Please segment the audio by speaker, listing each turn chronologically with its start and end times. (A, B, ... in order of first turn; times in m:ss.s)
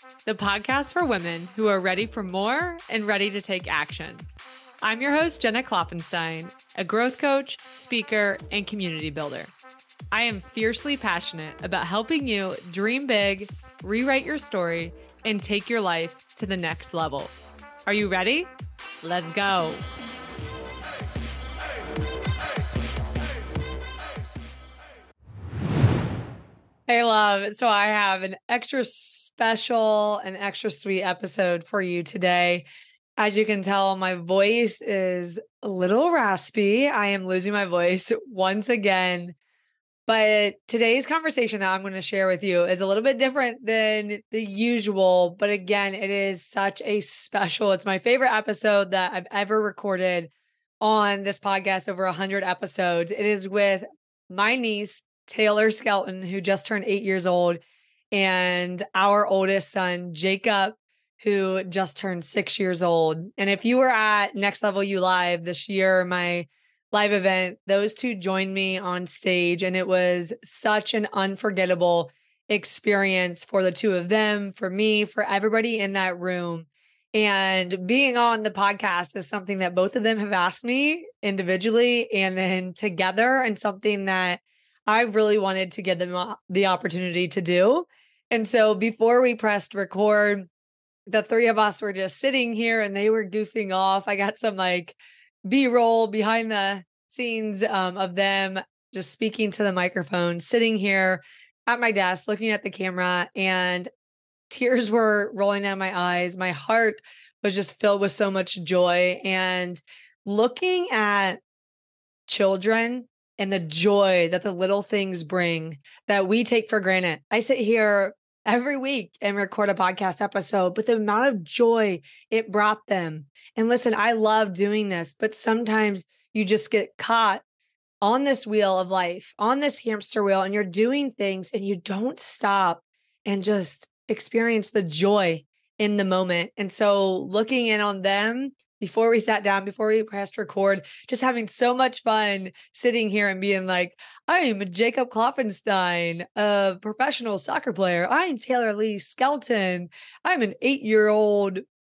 0:00.3-0:04.3 A
0:04.8-0:09.5 A
0:10.1-0:17.3 A
0:17.9-0:18.5 A
0:19.0-0:19.8 A
0:26.9-0:32.7 A
0:33.2-0:39.4 A
0:40.1-0:50.3 A
0:50.8-0:57.6 A
0:58.1-1:30.5 A
1:31.1-1:43.9 A
1:44.5-1:51.4 A
1:52.3-2:07.4 A
2:08.0-2:31.6 A